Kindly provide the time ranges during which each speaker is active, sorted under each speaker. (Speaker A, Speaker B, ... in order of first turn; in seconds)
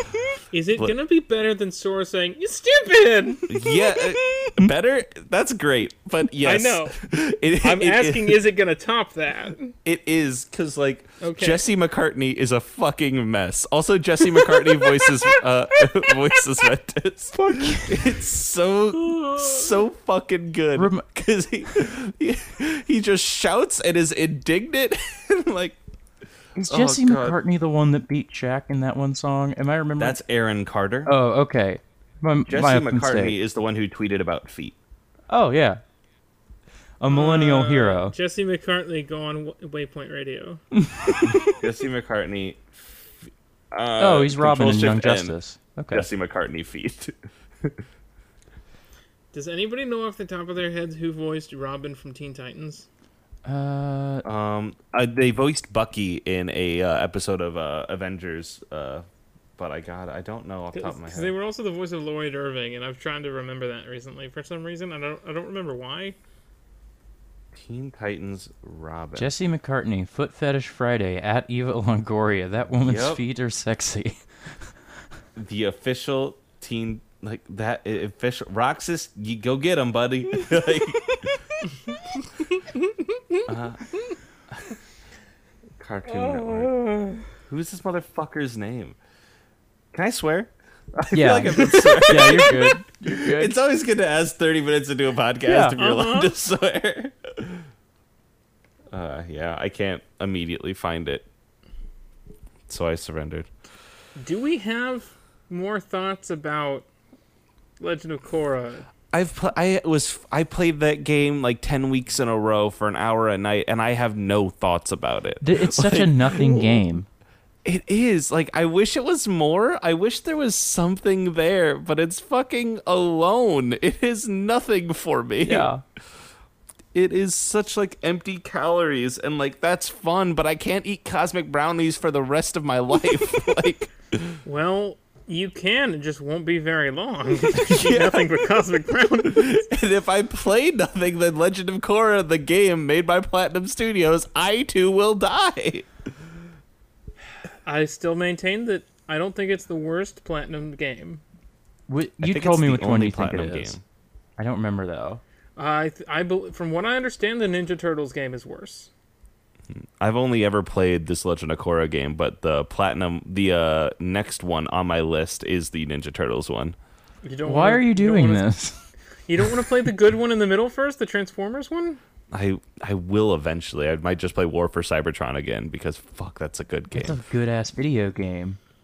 Speaker A: 0.5-3.5, 6.4-7.0, 7.6-9.8, 11.2-11.7, 14.5-15.4, 16.1-16.4, 18.9-19.8, 37.1-40.6, 49.3-52.9, 60.7-66.2, 83.2-83.5, 86.1-87.3, 91.8-92.5, 95.8-96.3, 104.2-106.9, 107.8-108.9, 134.4-139.6, 147.7-151.2, 155.6-158.9, 167.2-168.5, 169.3-172.0
Speaker B: 3.5-8.4, 9.8-25.8, 26.6-27.4, 30.0-31.1, 32.5-34.8, 41.5-42.6, 43.7-45.4, 45.9-47.8, 54.2-59.0, 59.6-61.3, 67.5-69.3, 72.8-73.2, 75.4-81.4, 83.5-83.9, 85.8-89.0, 89.9-97.7, 98.9-101.3, 102.7-103.5, 109.1-116.8, 117.7-125.7, 126.9-134.4, 137.6-138.3, 139.2-145.9, 152.2-153.8, 159.7-166.8, 172.3-177.2
Speaker C: 17.3-18.0, 20.8-21.1, 26.6-30.2, 31.1-33.4, 35.3-35.8, 37.0-38.1, 40.8-41.6, 44.0-46.1, 53.5-54.3, 69.2-74.2, 91.1-93.5, 95.5-95.8, 115.4-117.1, 125.4-125.8, 151.9-153.8, 154.4-155.2, 167.4-168.8, 176.9-178.6